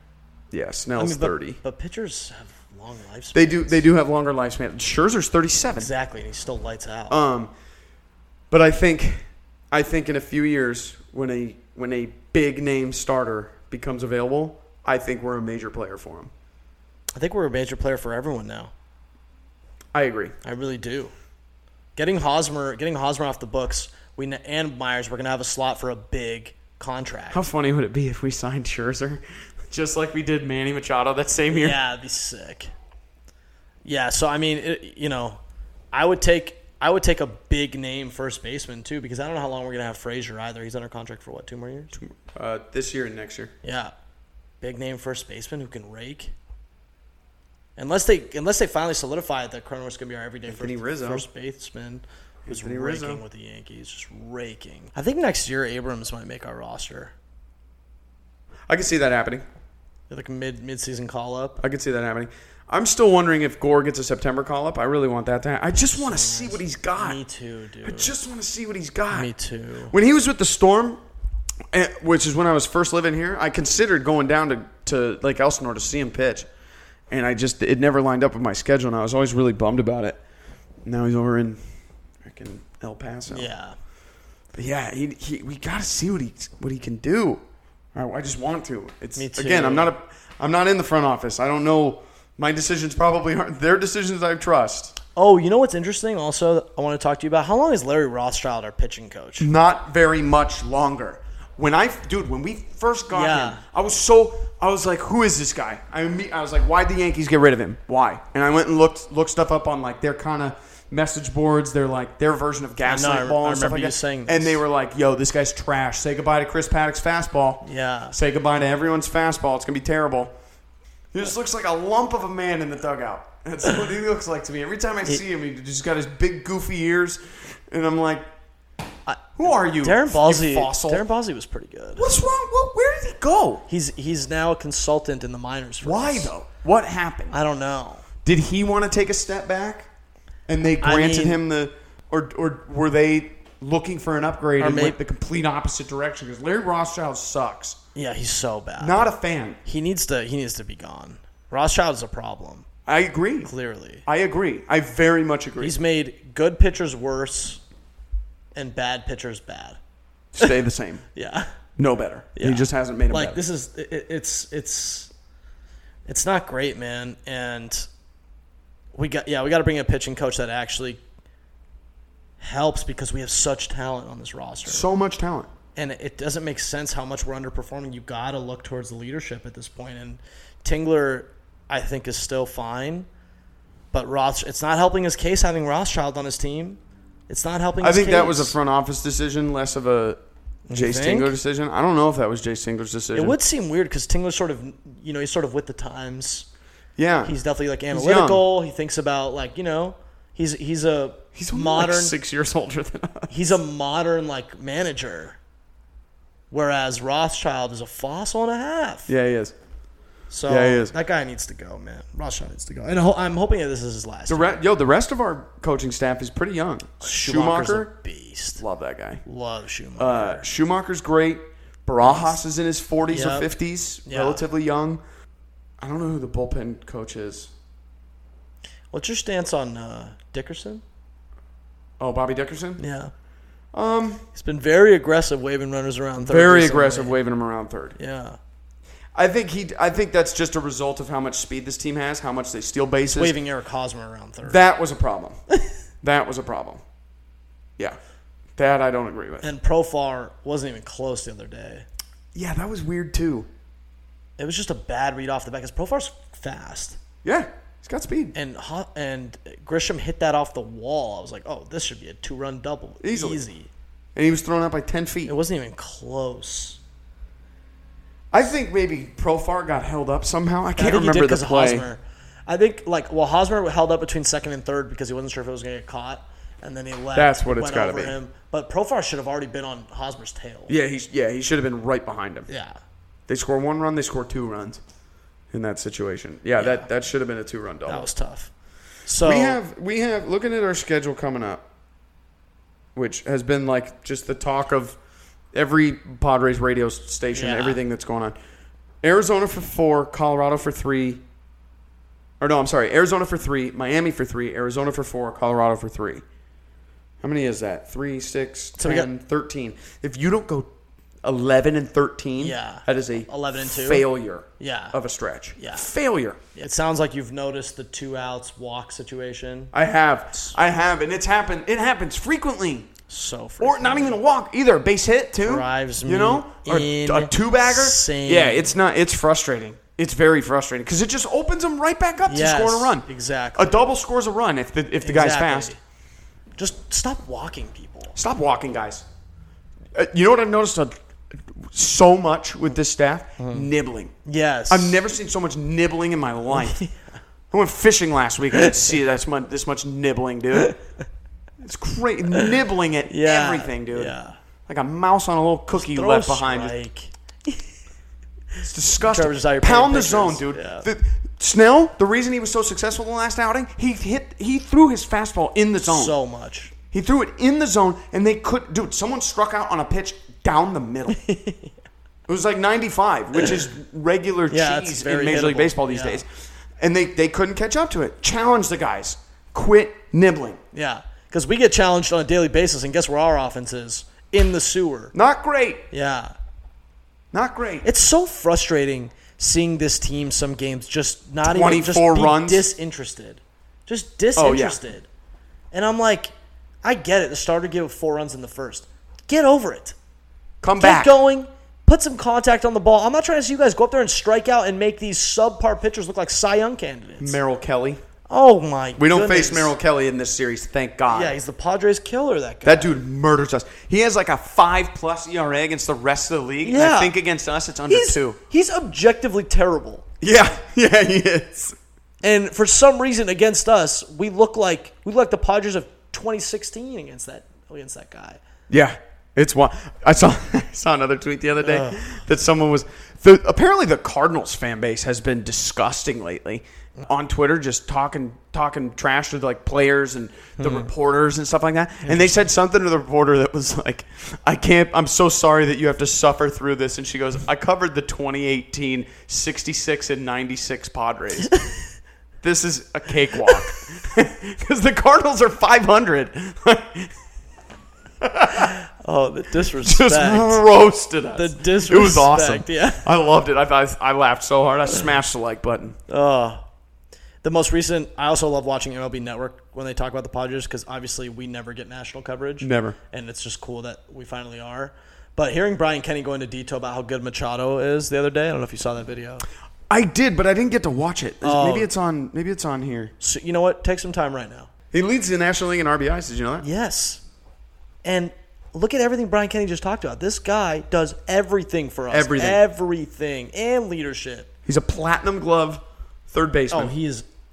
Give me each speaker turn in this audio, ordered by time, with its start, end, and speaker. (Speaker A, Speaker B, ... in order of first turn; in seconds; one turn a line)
Speaker A: 0.5-1.6
Speaker B: 1.0-3.8
Speaker A: 3.3-5.9
Speaker B: 5.7-7.2
Speaker A: 7.1-7.5
Speaker A: 8.5-16.3
Speaker B: 17.1-18.7
Speaker A: 19.9-20.4
Speaker B: 20.4-21.1
Speaker B: 21.9-27.4
Speaker A: 27.3-31.8
Speaker B: 31.5-32.7
Speaker B: 33.8-35.4
Speaker B: 35.9-42.0
Speaker A: 42.0-43.5
Speaker B: 43.6-43.9
Speaker B: 44.6-46.3
Speaker B: 47.8-57.1
Speaker A: 50.5-51.2
Speaker A: 52.5-53.2
Speaker A: 58.7-59.4
Speaker B: 60.1-61.6
Speaker A: 61.6-67.2
Speaker B: 65.9-68.1
Speaker A: 67.8-69.3
Speaker B: 69.1-69.9
Speaker A: 69.9-71.0
Speaker A: 71.7-76.5
Speaker A: 77.1-80.2
Speaker A: 80.8-81.6
Speaker A: 82.2-83.5
Speaker B: 83.3-83.8
Speaker A: 84.5-87.4
Speaker A: 87.9-95.0
Speaker B: 89.2-89.9
Speaker B: 95.2-99.5
Speaker A: 99.4-120.3
Speaker B: 103.1-103.6
Speaker B: 112.8-114.6
Speaker B: 117.6-118.2
Speaker A: 121.1-128.2
Speaker B: 129.1-132.1
Speaker A: 129.3-131.0
Speaker A: 132.0-133.6
Speaker B: 133.7-136.3
Speaker A: 135.8-137.3
Speaker B: 137.3-138.1
Speaker A: 138.2-139.9
Speaker A: 140.5-147.8
Speaker B: 140.8-141.4
Speaker B: 144.6-145.0
Speaker B: 147.9-149.0
Speaker A: 148.8-149.6
Speaker B: 149.6-152.7
Speaker A: 152.8-153.5
Speaker B: 153.4-154.0
Speaker A: 154.1-155.7
Speaker B: 155.6-157.6
Speaker B: 158.6-159.8
Speaker A: 160.3-161.0
Speaker B: 161.1-161.5
Speaker A: 161.8-163.4
Speaker B: 162.3-165.1
Speaker B: 166.1-167.9
Speaker B: 168.9-171.0
Speaker B: 172.4-174.8
Speaker A: 174.7-175.5
Speaker B: 175.8-183.1
Speaker B: 183.9-188.5
Speaker A: 187.8-190.2
Speaker B: 190.7-191.3
Speaker A: 190.7-193.3
Speaker B: 193.1-196.5
Speaker A: 197.0-197.3
Speaker B: 197.2-202.1
Speaker A: 197.9-198.4
Speaker A: 201.3-203.3
Speaker B: 203.3-205.4
Speaker B: 206.5-209.1
Speaker A: 209.1-209.5
Speaker B: 210.3-214.6
Speaker A: 210.5-210.9
Speaker A: 214.3-217.9
Speaker B: 217.0-218.6
Speaker A: 218.6-219.2
Speaker B: 219.2-220.4
Speaker A: 220.0-225.0
Speaker B: 222.0-222.4
Speaker B: 223.1-223.5
Speaker B: 224.1-224.4
Speaker A: 225.8-227.5
Speaker B: 228.9-230.8
Speaker A: 232.0-232.8
Speaker B: 232.8-233.1
Speaker A: 233.7-234.2
Speaker B: 234.3-237.2
Speaker A: 236.2-237.9
Speaker B: 238.0-238.4
Speaker A: 239.1-243.3
Speaker B: 243.1-244.6
Speaker A: 244.4-245.4
Speaker A: 246.0-246.8
Speaker A: 248.6-249.5
Speaker B: 249.4-251.8
Speaker A: 252.3-253.5
Speaker B: 254.4-257.0
Speaker A: 257.2-258.3
Speaker B: 258.3-263.7
Speaker A: 263.0-263.4
Speaker A: 264.1-265.3
Speaker B: 265.3-266.8
Speaker A: 268.3-271.9
Speaker B: 270.8-280.7
Speaker A: 277.1-278.1
Speaker A: 280.7-282.5
Speaker B: 282.5-282.8
Speaker A: 283.3-284.8
Speaker A: 285.5-288.1
Speaker B: 286.6-286.9
Speaker B: 287.9-288.5
Speaker B: 289.0-289.6
Speaker A: 289.2-291.6
Speaker A: 292.9-295.0
Speaker A: 295.5-298.3
Speaker B: 297.3-297.8
Speaker A: 299.0-301.2
Speaker A: 302.4-306.2
Speaker A: 307.2-310.7
Speaker B: 308.8-309.1
Speaker A: 311.2-316.5
Speaker B: 312.4-314.1
Speaker B: 314.6-314.9
Speaker B: 315.6-315.9
Speaker B: 316.5-319.7
Speaker A: 319.7-322.9
Speaker B: 323.1-324.2
Speaker A: 323.6-335.7
Speaker B: 325.4-328.8
Speaker B: 332.2-333.7
Speaker B: 335.0-335.8
Speaker B: 336.6-338.1
Speaker A: 338.1-339.0
Speaker A: 339.9-344.1
Speaker B: 343.4-343.7
Speaker B: 344.2-345.0
Speaker A: 344.7-346.8
Speaker B: 346.5-347.1
Speaker A: 347.5-350.7
Speaker A: 351.6-354.1
Speaker B: 353.1-354.4
Speaker A: 354.7-356.7
Speaker B: 355.7-357.1
Speaker A: 358.6-366.1
Speaker B: 359.0-360.9
Speaker B: 365.8-366.7
Speaker A: 366.9-371.2
Speaker B: 371.1-371.7
Speaker A: 372.3-380.6
Speaker B: 374.5-376.2
Speaker B: 380.7-385.1
Speaker A: 385.1-385.9
Speaker B: 385.9-386.3
Speaker A: 387.3-387.9
Speaker B: 387.8-395.1
Speaker A: 391.4-392.7
Speaker A: 394.4-394.8
Speaker B: 395.7-396.3
Speaker B: 396.8-399.9
Speaker A: 400.6-401.2
Speaker B: 400.8-407.4
Speaker A: 407.2-408.0
Speaker B: 408.3-409.7
Speaker A: 408.9-411.3
Speaker B: 411.1-413.0
Speaker A: 412.6-418.4
Speaker B: 416.6-417.1
Speaker B: 417.9-420.1
Speaker A: 420.2-421.8
Speaker B: 422.2-428.4
Speaker A: 428.7-451.6
Speaker B: 431.6-432.1
Speaker B: 440.6-440.9
Speaker B: 442.0-442.4
Speaker A: 452.4-457.1
Speaker A: 458.2-458.7
Speaker B: 458.8-460.6
Speaker A: 459.8-466.0
Speaker B: 461.3-463.1
Speaker B: 466.1-466.6
Speaker B: 467.4-479.4
Speaker A: 472.6-473.0
Speaker A: 479.9-483.1
Speaker B: 481.4-481.9
Speaker B: 483.2-484.7
Speaker A: 484.9-486.6
Speaker B: 486.6-487.2
Speaker B: 488.0-494.5
Speaker A: 492.1-492.6
Speaker A: 494.6-496.9
Speaker B: 496.7-497.2